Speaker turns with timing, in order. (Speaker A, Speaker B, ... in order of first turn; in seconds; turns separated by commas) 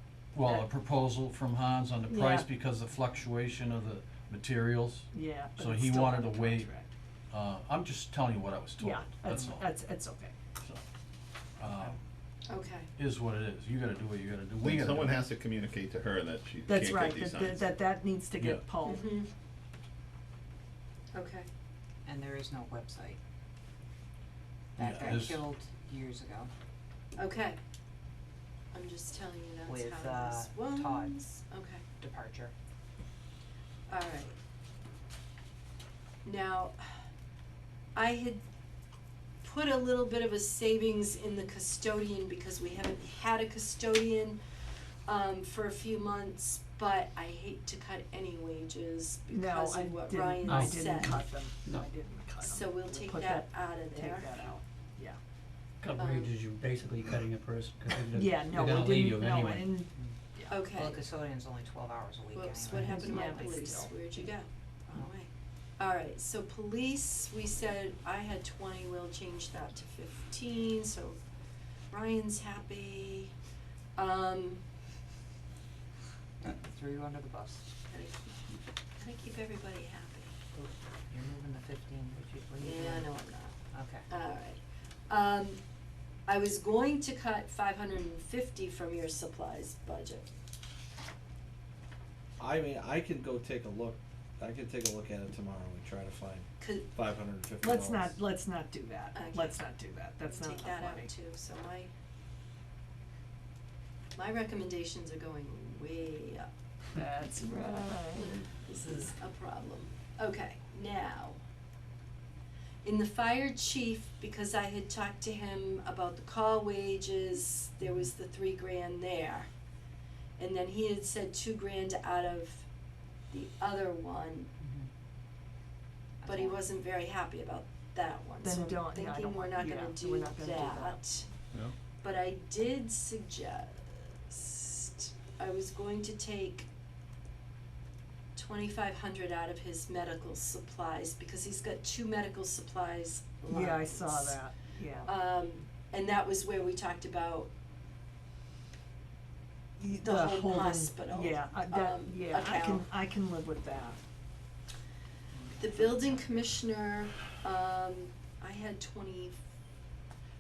Speaker A: 0.3-6.7, Speaker B: 0.4-0.7, Speaker B: 2.1-2.5, Speaker B: 5.1-6.9, Speaker A: 7.3-9.7, Speaker B: 8.8-10.3, Speaker A: 11.6-12.0, Speaker C: 12.5-12.9, Speaker A: 13.0-15.2, Speaker D: 14.6-17.7, Speaker B: 16.7-19.1, Speaker C: 18.8-19.3, Speaker C: 21.1-21.5, Speaker E: 22.1-23.2, Speaker E: 24.8-26.5, Speaker A: 24.8-25.4, Speaker C: 27.2-27.6, Speaker C: 28.7-31.8, Speaker E: 29.6-31.2, Speaker E: 32.0-32.5, Speaker C: 33.9-34.4, Speaker C: 36.2-36.8, Speaker C: 38.0-38.4, Speaker C: 39.4-44.4, Speaker C: 45.1-51.3, Speaker B: 49.3-55.2, Speaker F: 50.5-51.9, Speaker C: 52.4-54.4, Speaker F: 55.8-59.7, Speaker C: 56.0-56.3, Speaker B: 58.1-60.6, Speaker C: 60.5-61.1, Speaker E: 60.7-63.9, Speaker C: 62.3-71.2, Speaker B: 62.7-64.1, Speaker C: 71.9-73.3, Speaker C: 74.0-74.6, Speaker E: 76.4-77.7, Speaker C: 77.9-78.4, Speaker C: 79.0-80.3, Speaker E: 80.5-83.1, Speaker C: 82.6-83.5, Speaker E: 83.7-84.1, Speaker C: 84.1-85.6, Speaker C: 86.3-90.3, Speaker G: 92.4-98.1, Speaker C: 96.6-96.9, Speaker B: 97.6-101.1, Speaker C: 99.1-99.6, Speaker C: 100.2-101.9, Speaker C: 104.2-106.5, Speaker B: 107.0-108.4, Speaker C: 108.2-111.4, Speaker C: 112.8-119.5, Speaker E: 117.8-118.1, Speaker C: 120.4-122.7, Speaker C: 123.3-124.5, Speaker E: 124.6-124.9, Speaker E: 126.2-126.6, Speaker C: 126.2-131.3, Speaker B: 128.4-131.0, Speaker C: 132.0-136.7, Speaker C: 138.3-144.4, Speaker B: 143.5-145.2, Speaker C: 145.1-147.5, Speaker B: 149.8-154.0, Speaker C: 149.9-152.8, Speaker E: 155.3-156.6, Speaker C: 155.6-159.4